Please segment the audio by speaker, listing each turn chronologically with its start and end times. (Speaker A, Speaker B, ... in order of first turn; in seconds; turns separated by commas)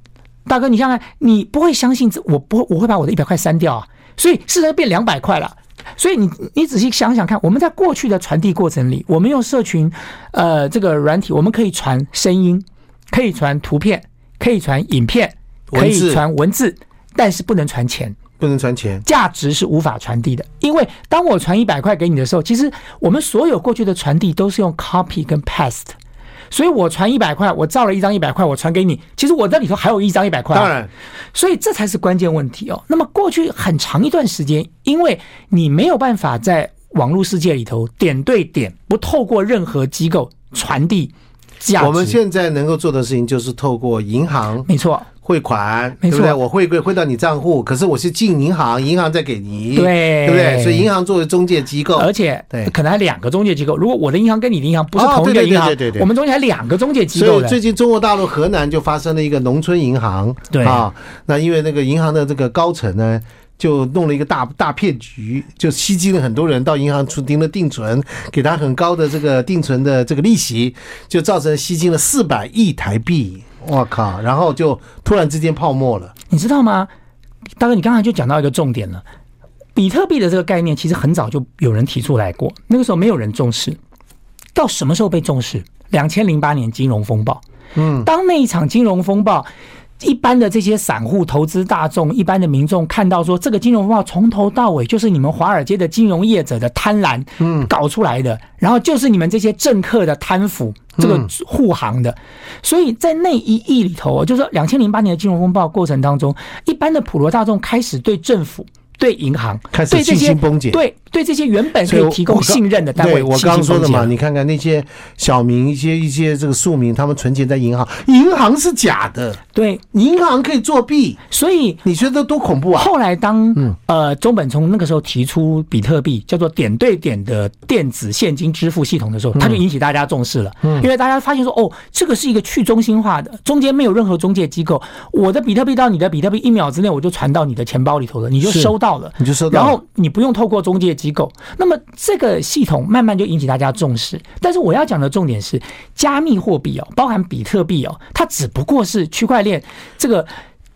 Speaker A: 0.5-18.2, Speaker B: 15.7-16.2, Speaker B: 18.4-19.1, Speaker A: 19.1-25.9, Speaker A: 26.5-30.7, Speaker B: 30.5-30.9, Speaker A: 31.3-42.2, Speaker B: 41.8-44.7, Speaker A: 44.7-45.1, Speaker B: 45.2-52.7, Speaker A: 46.0-46.4, Speaker A: 49.8-50.9, Speaker A: 51.9-57.6, Speaker B: 55.0-56.1, Speaker B: 57.1-76.1, Speaker A: 60.5-60.9, Speaker A: 76.3-76.9, Speaker A: 77.6-79.0, Speaker A: 79.8-83.8, Speaker A: 84.5-87.4, Speaker B: 87.8-88.1, Speaker A: 88.0-89.5, Speaker A: 90.0-114.1, Speaker B: 97.4-97.7, Speaker B: 101.0-101.3, Speaker B: 109.7-110.8, Speaker B: 111.8-119.4, Speaker A: 119.5-119.8, Speaker B: 119.9-121.2, Speaker A: 121.3-121.8, Speaker B: 121.8-122.9, Speaker A: 122.8-150.3, Speaker B: 129.3-129.6, Speaker B: 138.4-139.8